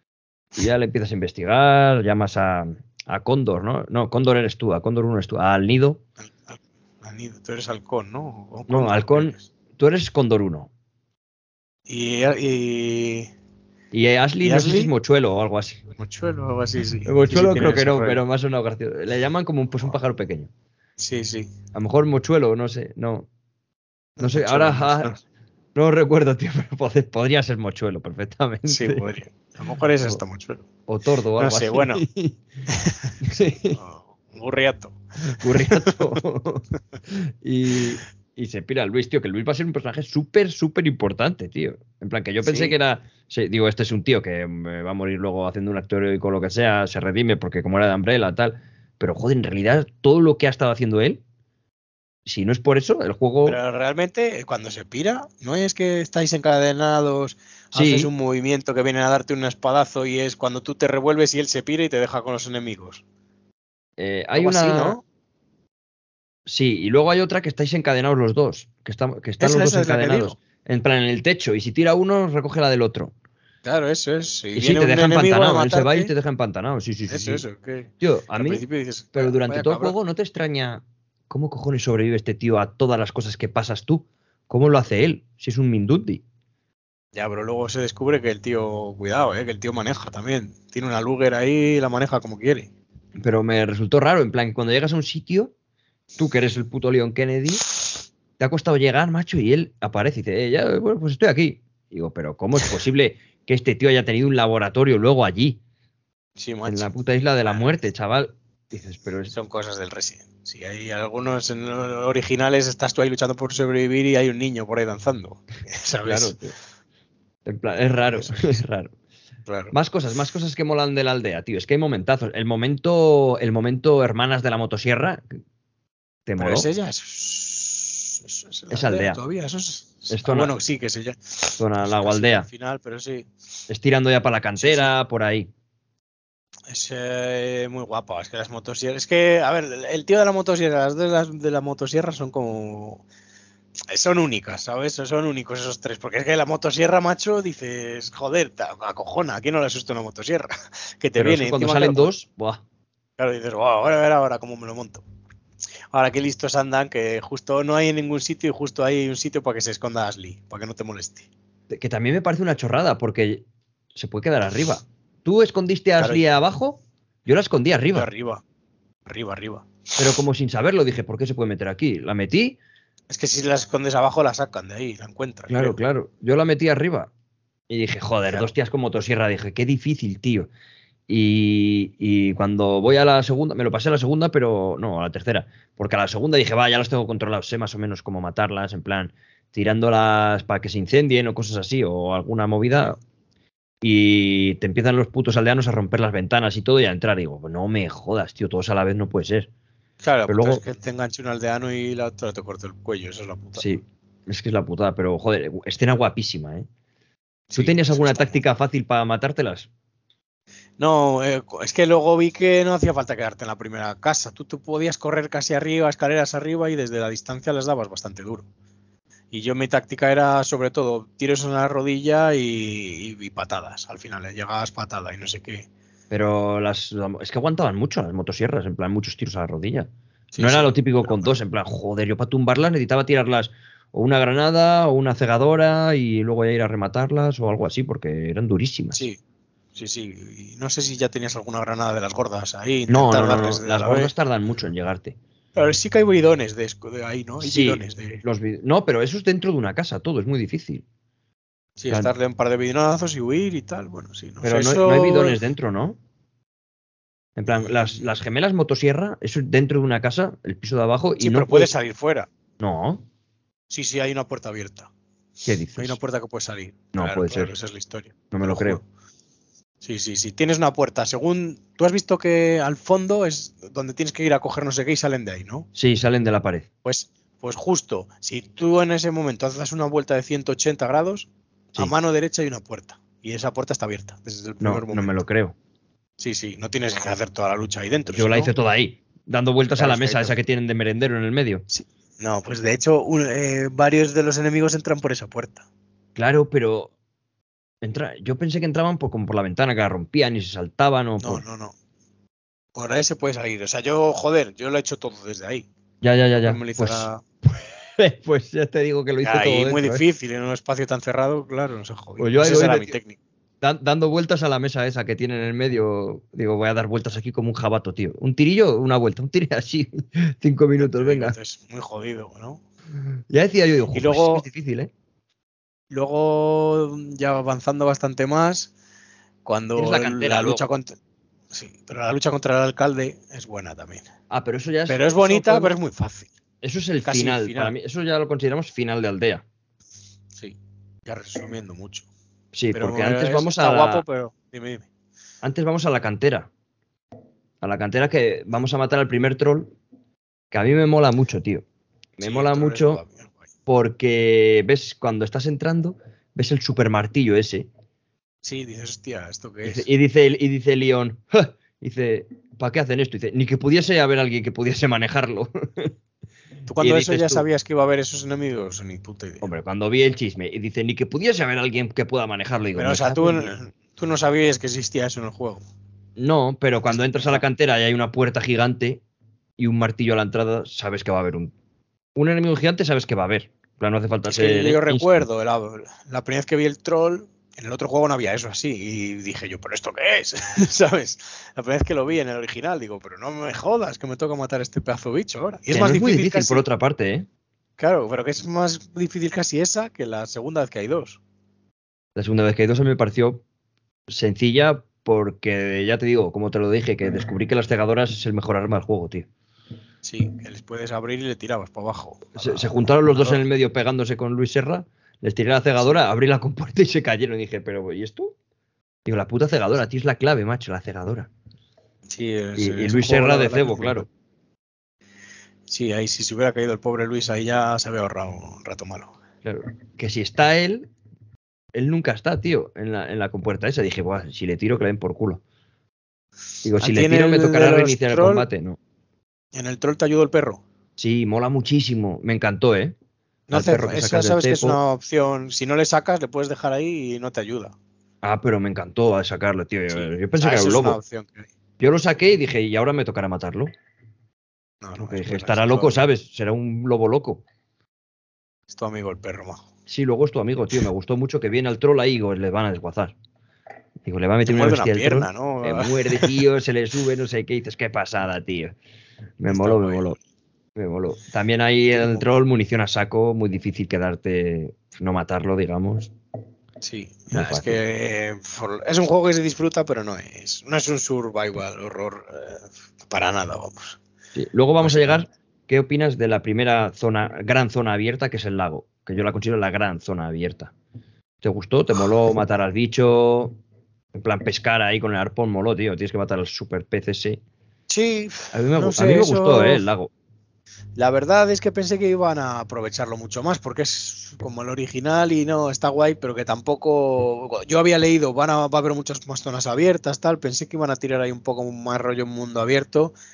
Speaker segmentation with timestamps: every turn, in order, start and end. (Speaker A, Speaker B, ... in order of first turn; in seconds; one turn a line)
Speaker A: 0.6-6.0
Speaker B: 6.2-9.4
Speaker A: 8.7-10.7
Speaker B: 11.9-13.3
Speaker A: 13.9-15.8
Speaker B: 14.4-14.9
Speaker B: 16.0-18.2
Speaker A: 17.1-20.5
Speaker B: 21.0-21.5
Speaker A: 21.7-23.3
Speaker B: 24.2-25.2
Speaker A: 24.2-25.1
Speaker A: 25.8-29.1
Speaker B: 28.7-30.6
Speaker A: 30.9-32.4
Speaker B: 31.4-32.0
Speaker B: 32.7-33.0
Speaker A: 33.2-33.8
Speaker B: 33.7-36.2
Speaker A: 35.3-51.2
Speaker B: 42.4-42.8
Speaker A: 52.3-53.6
Speaker B: 53.5-63.0
Speaker A: 57.7-58.1
Speaker A: 64.0-65.0
Speaker B: 64.3-65.0
Speaker A: 66.5-73.1
Speaker B: 69.4-70.4
Speaker B: 73.6-76.1
Speaker A: 74.5-77.4
Speaker B: 77.1-80.0
Speaker A: 78.0-78.6
Speaker A: 79.1-86.2
Speaker B: 87.1-92.7
Speaker A: 93.2-95.5
Speaker A: 96.2-97.7
Speaker A: 98.4-105.6
Speaker B: 106.4-106.9
Speaker A: 106.7-109.3
Speaker B: 109.3-116.3
Speaker A: 116.0-116.5
Speaker A: 117.5-118.9
Speaker B: 118.1-118.6
Speaker B: 119.5-119.7
Speaker A: 119.7-125.2
Speaker A: 126.3-126.7
Speaker B: 126.4-133.3
Speaker A: 128.7-129.2
Speaker A: 130.1-130.5
Speaker A: 131.6-132.5
Speaker A: 133.7-135.5
Speaker B: 134.6-134.9
Speaker B: 136.7-143.1
Speaker B: 143.9-152.1
Speaker A: 151.2-152.6
Speaker B: 153.2-155.0
Speaker B: 155.9-161.3
Speaker A: 161.7-163.4
Speaker A: 163.9-168.1
Speaker B: 167.9-168.4
Speaker B: 169.1-170.0
Speaker A: 170.0-172.6
Speaker B: 173.1-175.8
Speaker A: 175.5-177.1
Speaker A: 177.7-180.5
Speaker A: 181.1-193.0
Speaker A: 193.8-199.5
Speaker B: 200.0-203.7
Speaker A: 200.3-200.6
Speaker A: 203.6-206.7
Speaker B: 207.5-208.4
Speaker A: 207.5-209.7
Speaker B: 210.8-218.5
Speaker B: 219.3-225.7
Speaker A: 226.1-239.1
Speaker B: 230.3-231.3
Speaker B: 238.9-239.2
Speaker B: 239.8-244.1
Speaker A: 242.9-245.2
Speaker B: 245.6-248.2
Speaker A: 247.4-250.8
Speaker B: 251.8-255.4
Speaker A: 254.4-256.0
Speaker A: 257.4-261.7
Speaker B: 257.6-258.0
Speaker B: 261.2-262.3
Speaker A: 262.6-263.0
Speaker B: 263.7-264.9
Speaker A: 265.4-266.0
Speaker B: 265.8-268.8
Speaker A: 266.9-267.5
Speaker A: 268.3-268.8
Speaker B: 269.8-275.7
Speaker A: 275.8-276.7
Speaker B: 276.9-285.2
Speaker A: 284.6-285.6
Speaker B: 286.2-288.5
Speaker A: 288.1-291.6
Speaker B: 289.7-290.4
Speaker B: 291.7-295.7
Speaker A: 296.2-296.9
Speaker A: 297.8-301.4
Speaker B: 301.2-301.8
Speaker B: 302.8-305.7
Speaker A: 306.0-310.0
Speaker B: 306.4-307.2
Speaker B: 309.2-313.2
Speaker A: 312.2-312.9
Speaker A: 313.6-321.4
Speaker B: 320.8-322.6
Speaker A: 323.3-324.9
Speaker B: 323.9-324.5
Speaker B: 325.9-328.7
Speaker B: 329.4-331.0
Speaker A: 329.8-330.6
Speaker B: 331.5-334.1
Speaker A: 334.3-335.8
Speaker B: 334.9-336.3
Speaker A: 336.6-339.4
Speaker B: 337.0-337.7
Speaker B: 340.3-342.1
Speaker A: 342.5-344.0
Speaker B: 342.7-344.9
Speaker A: 345.4-346.5
Speaker A: 347.6-349.7
Speaker A: 350.5-351.6
Speaker A: 352.2-353.0
Speaker B: 352.2-353.4
Speaker A: 353.7-357.7
Speaker B: 358.4-359.9
Speaker A: 359.6-366.0
Speaker B: 366.7-369.4
Speaker A: 366.8-367.4
Speaker A: 369.4-373.6
Speaker B: 372.8-375.6
Speaker A: 376.2-379.0
Speaker B: 377.0-377.4
Speaker A: 379.6-381.5
Speaker A: 382.1-385.2
Speaker B: 384.3-396.6
Speaker A: 395.7-397.3
Speaker B: 397.8-401.2
Speaker A: 402.2-403.4
Speaker A: 404.1-409.3
Speaker B: 410.0-413.4
Speaker A: 412.4-418.3
Speaker A: 419.1-421.3
Speaker B: 422.1-424.1
Speaker A: 422.6-424.1
Speaker B: 425.7-429.1
Speaker A: 429.4-430.9
Speaker A: 431.7-435.4
Speaker A: 436.6-438.8
Speaker B: 436.8-438.5
Speaker B: 439.5-440.6
Speaker A: 441.0-442.9
Speaker B: 443.5-447.8
Speaker A: 443.5-444.8
Speaker A: 448.2-451.0
Speaker B: 449.9-451.5
Speaker A: 451.8-453.7
Speaker B: 454.8-456.0
Speaker A: 455.0-457.4
Speaker B: 458.7-459.6
Speaker A: 459.9-463.1
Speaker A: 464.1-468.8
Speaker B: 464.4-466.4
Speaker A: 469.4-470.2
Speaker B: 469.5-470.1
Speaker A: 470.8-476.1
Speaker B: 471.9-472.2
Speaker B: 476.8-484.0
Speaker A: 477.3-477.8
Speaker A: 484.4-490.7
Speaker B: 484.8-485.2
Speaker A: 491.4-493.6
Speaker A: 494.1-497.4
Speaker B: 497.9-499.8
Speaker A: 498.5-500.1
Speaker B: 501.0-513.1